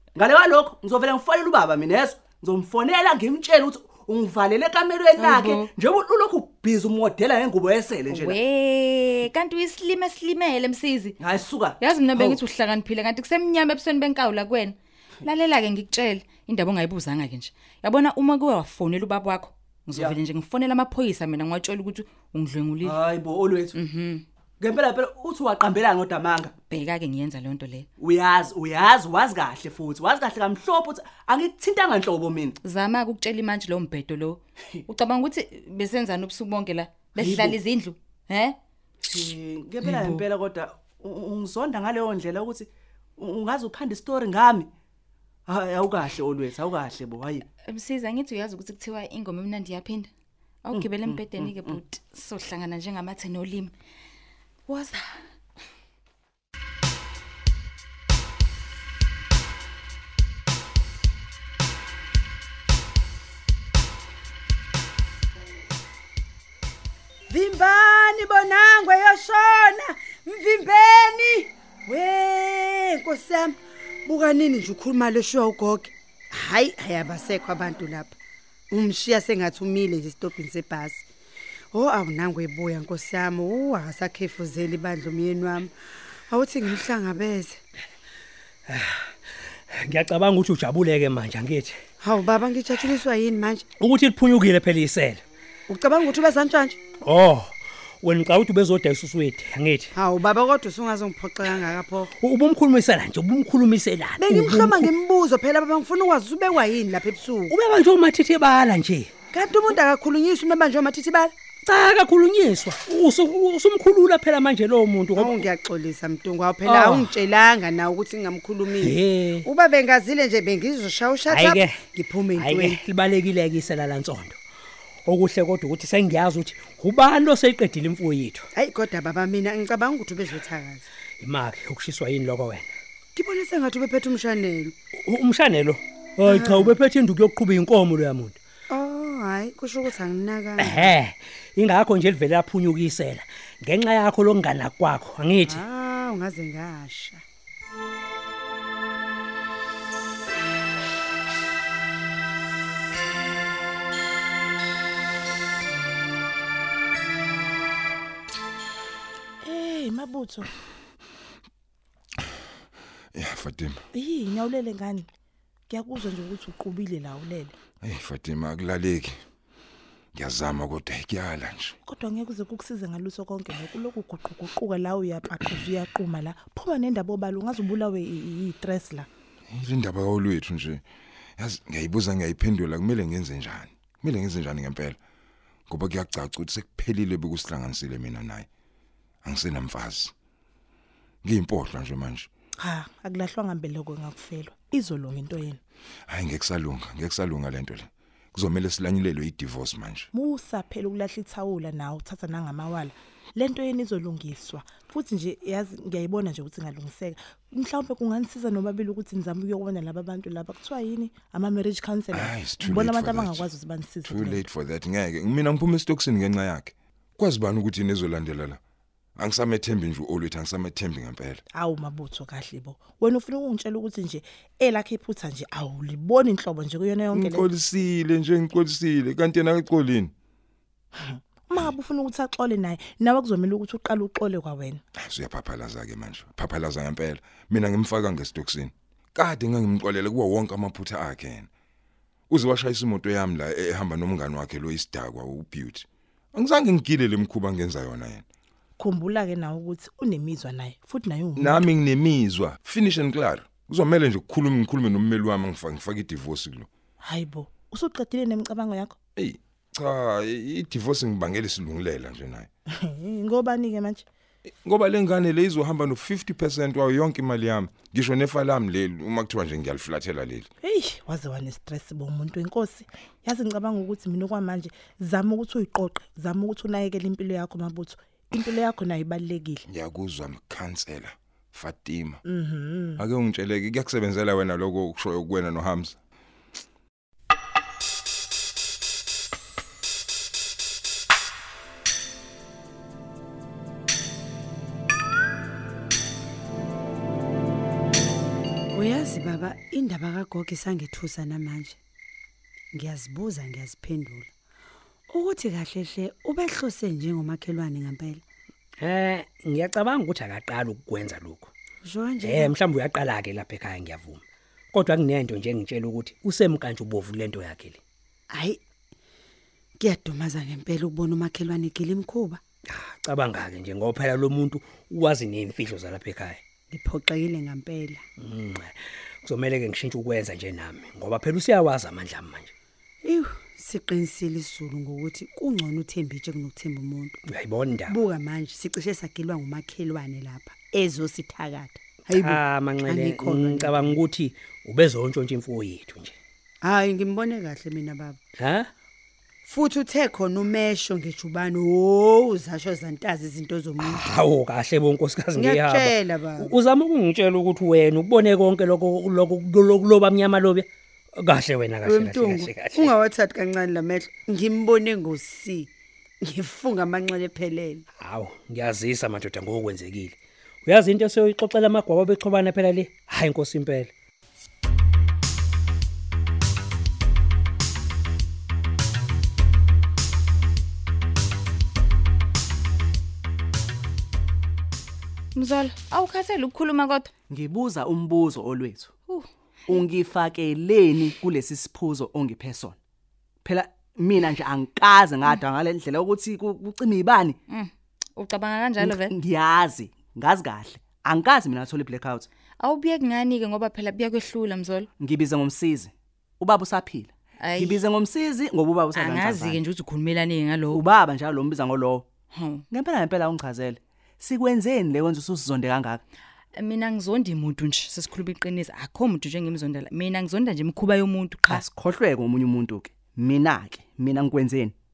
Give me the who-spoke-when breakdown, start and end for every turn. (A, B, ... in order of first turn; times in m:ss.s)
0:00.2-0:08.4 A
0:05.2-0:05.7 B
0:08.1-0:11.2 B
0:11.2-0:12.4 A
0:11.8-0:23.0 B
0:22.8-0:23.8 A
0:23.7-0:24.2 B
0:24.6-0:26.5 A
0:26.7-0:27.9 B
0:28.0-0:32.6 A
0:32.6-0:38.6 B
0:37.2-0:37.6 A
0:39.1-0:44.7 A
0:39.8-0:40.2 B
0:45.5-0:47.4 A
0:47.6-0:50.1 B
0:50.6-0:53.7 B
0:50.7-0:51.8 A
0:54.7-0:55.2 B
1:07.3-1:18.2 C
1:18.7-1:21.0 C
1:21.7-1:25.7 C
1:26.3-1:27.6 C
1:28.7-1:29.1 D
1:29.7-1:31.8 D
1:32.0-1:33.6 C
1:33.8-1:35.2 D
1:35.7-1:36.8 C
1:37.0-1:39.9 D
1:39.9-1:42.1 C
1:42.2-1:44.9 D
1:44.2-1:47.5 C
1:47.5-1:49.1 D
1:49.3-1:51.3 C
1:51.7-1:55.4 D
1:55.2-2:02.8 C
1:56.6-1:57.2 D
1:58.8-1:59.5 D
2:01.3-2:01.8 D
2:02.3-2:04.4 D
2:05.0-2:08.5 D
2:08.6-2:10.9 C
2:11.2-2:12.7 D
2:13.2-2:14.7 C
2:15.0-2:18.4 D
2:16.2-2:16.8 C
2:18.7-2:20.9 C
2:20.6-2:25.6 D
2:25.4-2:27.2 C
2:39.4-2:40.5 E
2:43.2-2:43.8 F
2:43.9-2:45.1 E
2:45.7-2:47.5 E
2:47.8-2:49.2 F
2:50.2-2:51.8 F
2:51.8-2:59.1 E
2:59.5-3:00.8 F
3:01.4-3:05.0 F
3:05.7-3:08.5 F
3:09.2-3:10.1 F
3:11.2-3:12.3 F
3:12.6-3:15.6 E
3:16.1-3:20.1 F
3:20.1-3:34.4 E
3:32.1-3:33.5 F
3:34.1-3:38.6 F
3:39.2-3:41.4 F
3:41.5-3:47.5 E
3:47.1-3:50.1 F
3:51.0-3:54.8 E
3:55.0-4:01.5 F
4:02.3-4:08.2 F
4:08.8-4:11.6 E
4:11.4-4:16.7 F
4:17.0-4:18.9 E
4:19.2-4:22.5 F
4:22.8-4:24.0 E
4:24.6-4:30.5 F
4:30.6-4:39.6 E
4:39.7-4:42.2 F
4:42.3-4:43.0 E
4:43.0-4:46.0 F
4:58.7-5:01.8 C
5:02.7-5:04.3 C
5:05.1-5:08.2 C
5:08.8-5:11.5 D
5:11.8-5:12.5 C
5:12.2-5:17.8 D
5:18.3-5:18.6 C
5:19.8-5:22.4 C
5:22.7-5:26.4 D
5:26.7-5:28.0 C
5:28.2-5:32.5 D
5:33.0-5:37.2 C
5:37.3-5:38.0 D
5:37.9-5:44.0 C
5:42.1-5:46.2 D
5:46.6-5:48.2 C
5:48.4-5:48.7 D
5:49.4-5:54.0 C
5:53.8-6:02.9 D
5:55.3-5:56.6 C
6:01.8-6:05.7 C
6:06.2-6:07.8 C
6:08.0-6:13.9 D
6:25.4-6:27.1 B
6:27.3-6:28.9 A
6:29.1-6:29.8 B
6:29.7-6:32.8 A
6:33.4-6:37.4 A
6:37.5-6:39.1 B
6:38.8-6:42.3 A
6:42.6-6:44.9 B
6:45.0-6:49.6 A
6:47.4-6:47.8 B
6:48.9-6:50.8 B
6:50.7-6:52.1 A
6:52.3-6:52.6 B
6:52.7-6:56.0 A
6:56.5-7:01.6 B
7:01.5-7:04.7 A